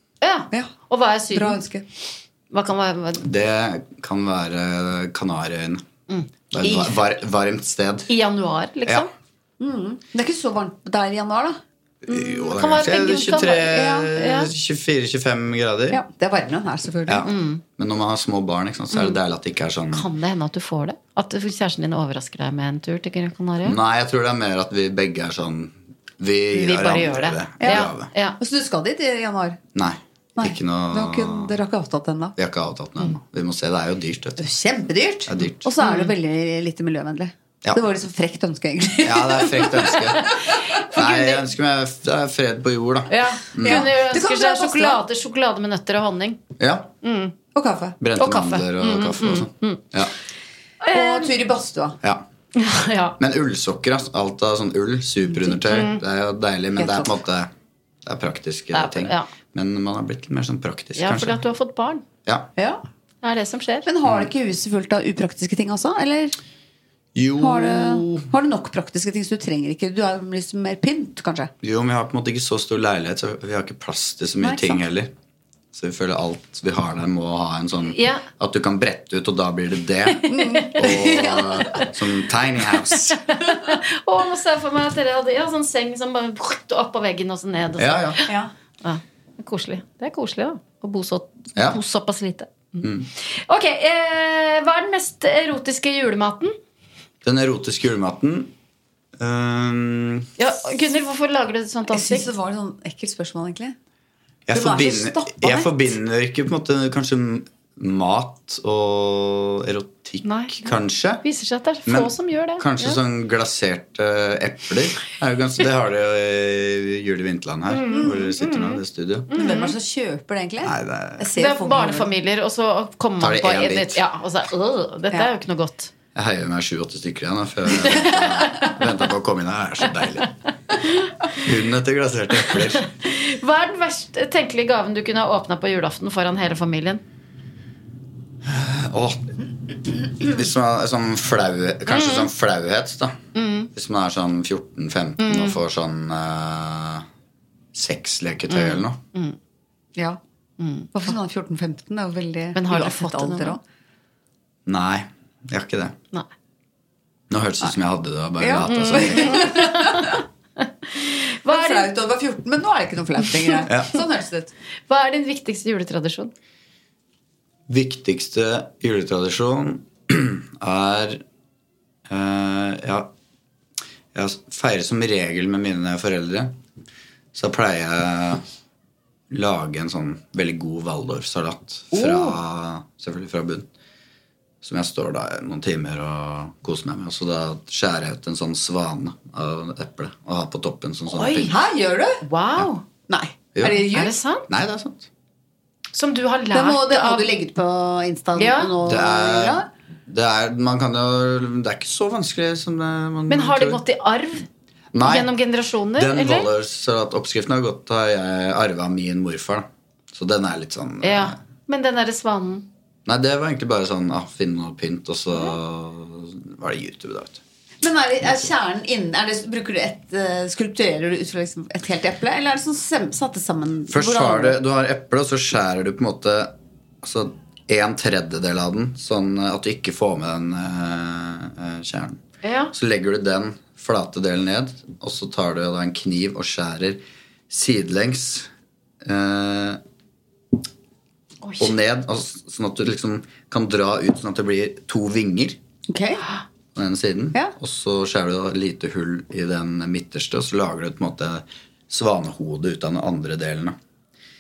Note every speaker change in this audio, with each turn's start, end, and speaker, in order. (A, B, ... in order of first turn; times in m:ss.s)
0:00.2-0:01.6 A
0:01.3-0:01.8 B
0:02.5-0:03.2 A
0:03.2-0:05.8 C
0:06.5-0:08.1 C
0:06.6-0:06.9 B
0:08.1-0:09.1 A
0:09.6-0:11.6 B
0:12.1-0:16.0 C
0:12.1-0:14.5 A
0:13.7-0:14.1 B
0:15.9-0:17.3 B
0:17.1-0:20.1 C
0:17.2-0:17.6 A
0:18.9-0:19.2 A
0:19.9-0:23.8 A
0:23.6-0:28.1 C
0:26.5-0:28.4 A
0:27.6-0:29.6 B
0:29.8-0:31.5 C
0:30.4-0:32.4 B
0:32.4-0:34.4 C
0:34.4-0:40.6 B
0:35.3-0:35.7 C
0:35.8-0:36.1 A
0:39.0-0:40.4 C
0:40.8-0:41.4 A
0:40.9-0:43.9 C
0:43.1-0:46.4 A
0:43.6-0:45.0 B
0:46.6-0:46.9 C
0:47.0-0:47.3 A
0:47.5-0:48.0 B
0:48.0-0:50.1 C
0:48.2-0:49.8 A
0:50.8-0:51.3 A
0:50.9-0:52.0 B
0:52.6-0:53.2 A
0:53.2-0:57.5 C
0:55.6-0:56.0 A
0:56.8-0:57.2 B
0:58.0-1:01.4 C
0:58.7-0:59.3 A
1:01.0-1:02.0 A
1:03.2-1:03.9 A
1:03.8-1:06.4 B
1:04.0-1:04.3 C
1:07.2-1:08.3 C
1:07.4-1:11.5 B
1:11.6-1:15.1 C
1:14.4-1:14.8 B
1:15.7-1:23.2 C
1:17.9-1:18.2 A
1:20.3-1:21.5 B
1:20.3-1:21.9 A
1:23.1-1:36.5 A
1:27.8-1:28.2 C
1:37.2-1:38.5 C
1:39.2-1:40.3 C
1:40.4-1:42.3 A
1:41.9-1:43.8 B
1:44.5-1:51.2 C
1:44.5-1:45.7 B
1:50.2-1:53.0 A
1:51.9-1:59.3 C
1:57.7-1:58.8 A
1:59.3-1:59.7 A
1:59.4-2:02.1 B
2:00.6-2:01.3 C
2:01.4-2:05.9 A
2:03.2-2:04.0 C
2:06.2-2:10.3 C
2:10.8-2:11.3 A
2:11.4-2:12.8 C
2:12.5-2:17.0 A
2:18.4-2:19.5 C
2:20.1-2:23.2 C
2:21.9-2:22.3 A
2:23.4-2:23.7 A
2:23.7-2:27.0 C
2:25.2-2:25.6 A
2:27.7-2:29.0 C
2:28.5-2:29.4 A
2:30.6-2:31.1 A
2:30.9-2:33.6 B
2:32.6-2:33.6 A
2:34.7-2:36.0 C
2:37.3-2:39.5 C
2:38.4-2:39.9 B
2:38.7-2:41.9 A
2:41.5-2:44.5 B
2:43.7-2:44.0 C
2:44.9-2:46.3 A
2:47.7-2:51.2 C
2:52.1-2:53.1 C
2:54.2-2:56.5 C
2:57.4-2:58.4 C
2:59.3-3:03.7 C
3:01.9-3:02.4 B
3:04.6-3:11.6 C
3:11.1-3:11.5 A
3:11.5-3:12.2 B
3:12.2-3:12.8 A
3:13.1-3:14.1 B
3:13.5-3:15.1 C
3:13.8-3:14.4 A
3:15.9-3:17.3 A
3:16.5-3:19.7 B
3:18.4-3:18.7 A
3:18.8-3:23.8 C
3:23.3-3:24.5 A
3:24.9-3:25.3 C
3:25.0-3:26.5 A
3:26.0-3:31.4 C
3:31.0-3:32.7 A
3:33.1-3:37.4 C
3:37.8-3:44.6 B
3:43.9-3:46.5 C
3:47.0-3:58.5 C
3:52.4-3:52.7 A
3:59.0-3:59.8 C
4:01.4-4:01.7 A
4:01.6-4:05.6 C
4:05.9-4:06.3 B
4:06.8-4:13.8 C